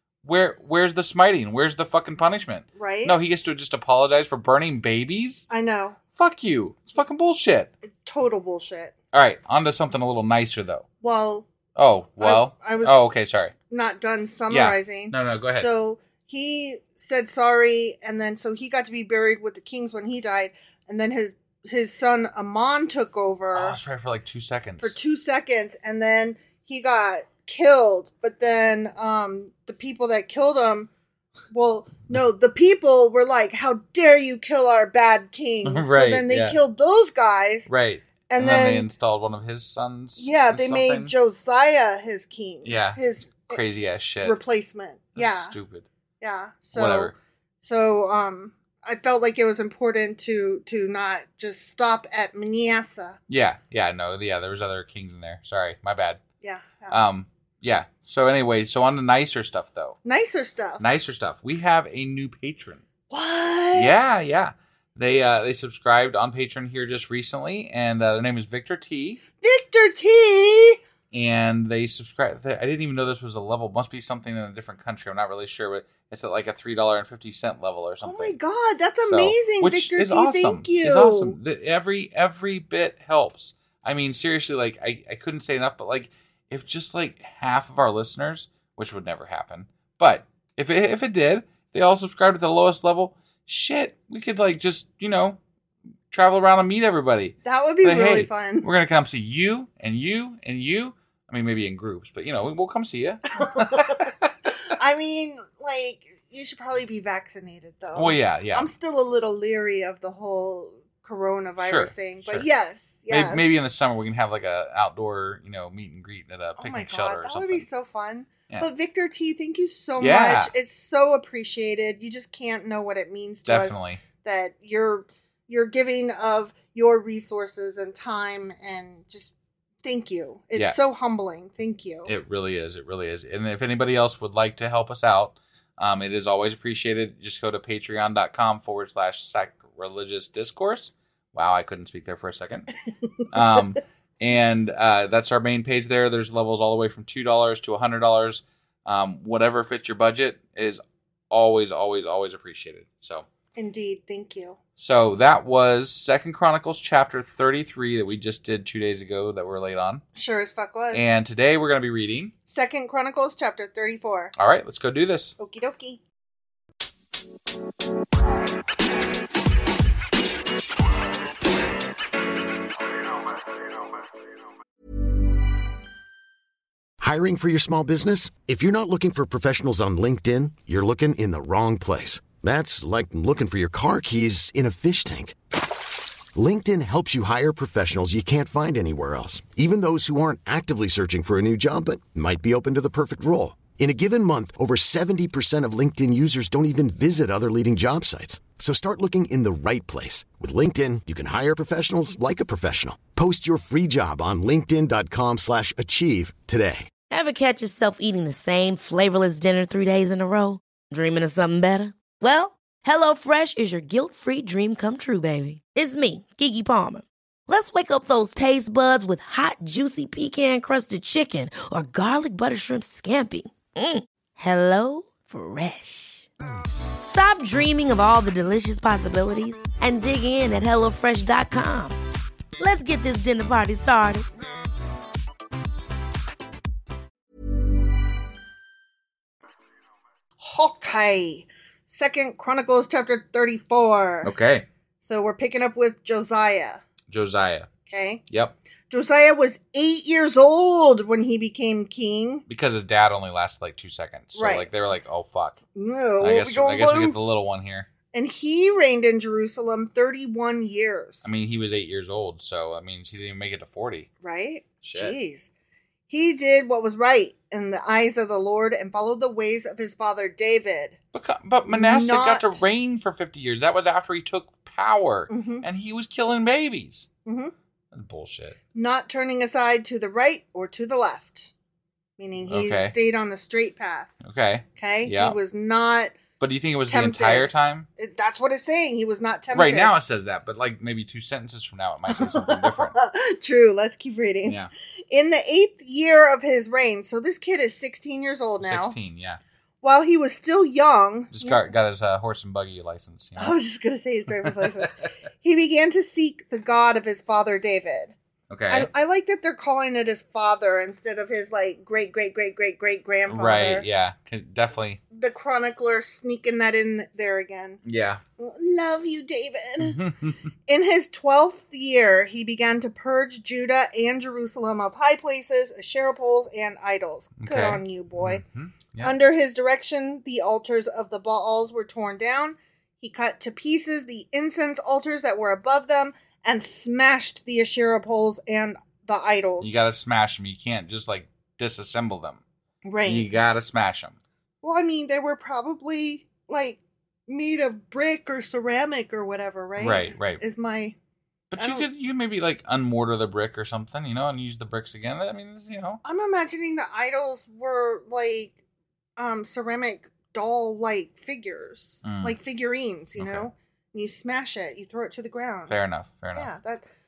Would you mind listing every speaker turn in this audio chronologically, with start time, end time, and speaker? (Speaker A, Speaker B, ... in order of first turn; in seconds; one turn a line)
Speaker A: 0.2-5.5
Speaker B: 2.8-3.1
Speaker B: 5.5-6.0
Speaker A: 6.2-7.7
Speaker B: 8.0-8.9
Speaker A: 9.1-10.8
Speaker B: 11.0-11.5
Speaker A: 11.8-13.5
Speaker B: 12.2-12.9
Speaker B: 13.7-23.8
Speaker A: 14.5-15.7
Speaker A: 23.5-25.0
Speaker B: 24.8-30.9
Speaker B: 31.5-37.7
Speaker A: 35.6-36.6
Speaker A: 37.7-41.1
Speaker B: 38.3-38.9
Speaker B: 40.2-43.6
Speaker A: 42.6-44.4
Speaker B: 44.2-45.5
Speaker A: 45.1-45.9
Speaker B: 46.2-53.2
Speaker A: 46.7-47.1
Speaker A: 53.3-56.2
Speaker B: 56.4-57.0
Speaker A: 56.9-60.0
Speaker B: 60.0-60.8
Speaker A: 60.8-62.8
Speaker B: 63.1-63.9
Speaker A: 63.7-69.2
Speaker B: 69.4-70.8
Speaker A: 71.1-78.3
Speaker B: 78.0-81.4
Speaker A: 79.0-95.4
Speaker A: 96.1-104.3
Speaker B: 97.4-98.7
Speaker B: 103.4-104.0
Speaker B: 104.7-113.5
Speaker A: 107.9-108.7
Speaker A: 111.6-112.5
Speaker A: 113.1-117.7
Speaker B: 116.6-132.1
Speaker A: 120.0-120.5
Speaker A: 123.5-124.0
Speaker A: 132.1-142.7
Speaker A: 143.3-153.2
Speaker B: 153.6-154.6
Speaker A: 154.8-160.0
Speaker B: 160.1-161.0
Speaker A: 160.9-162.3
Speaker B: 162.5-164.3
Speaker A: 164.3-165.3
Speaker B: 165.4-166.0
Speaker C: 177.0-185.3
Speaker C: 186.3-206.9
Speaker D: 207.1-226.3
Speaker D: 227.0-232.0
Speaker D: 232.6-234.3
Speaker B: 240.4-244.3
Speaker A: 244.2-244.7
Speaker B: 245.0-246.8
Speaker A: 247.1-247.7
Speaker B: 247.9-248.2
Speaker B: 248.9-252.4
Speaker A: 252.5-255.6
Speaker B: 254.3-254.7
Speaker B: 255.7-257.1
Speaker A: 256.2-257.9
Speaker B: 258.1-261.2
Speaker A: 261.2-264.1
Speaker B: 264.2-265.5
Speaker A: 264.8-265.1
Speaker B: 266.1-271.0
Speaker A: 271.1-277.1
Speaker B: 271.7-272.6
Speaker B: 275.3-275.6
Speaker B: 277.2-277.5
Speaker A: 277.9-278.6
Speaker B: 278.7-281.5
Speaker B: 282.2-284.2
Speaker A: 282.5-282.9
Speaker A: 284.2-285.4
Speaker B: 284.8-286.1
Speaker A: 286.4-287.9
Speaker B: 286.9-289.9
Speaker A: 289.5-292.9
Speaker B: 292.1-294.6
Speaker B: 295.1-298.9
Speaker A: 298.6-299.4
Speaker B: 299.8-301.7
Speaker A: 301.3-303.6
Speaker B: 303.4-308.1
Speaker A: 304.4-305.1
Speaker A: 308.5-308.9
Speaker B: 308.7-313.9
Speaker A: 313.3-315.0
Speaker B: 315.1-317.8
Speaker A: 317.8-318.2
Speaker B: 318.4-320.0
Speaker A: 319.8-320.4
Speaker B: 320.7-328.4
Speaker A: 327.4-329.1
Speaker B: 329.0-339.7
Speaker A: 339.6-342.4
Speaker B: 342.8-343.3
Speaker A: 343.0-344.2
Speaker B: 344.6-350.9
Speaker A: 349.8-350.4
Speaker A: 351.5-356.0
Speaker B: 351.6-351.9
Speaker B: 356.0-358.6
Speaker B: 359.2-365.7
Speaker A: 362.0-362.4
Speaker A: 363.2-363.5
Speaker A: 365.7-366.5
Speaker B: 366.3-366.9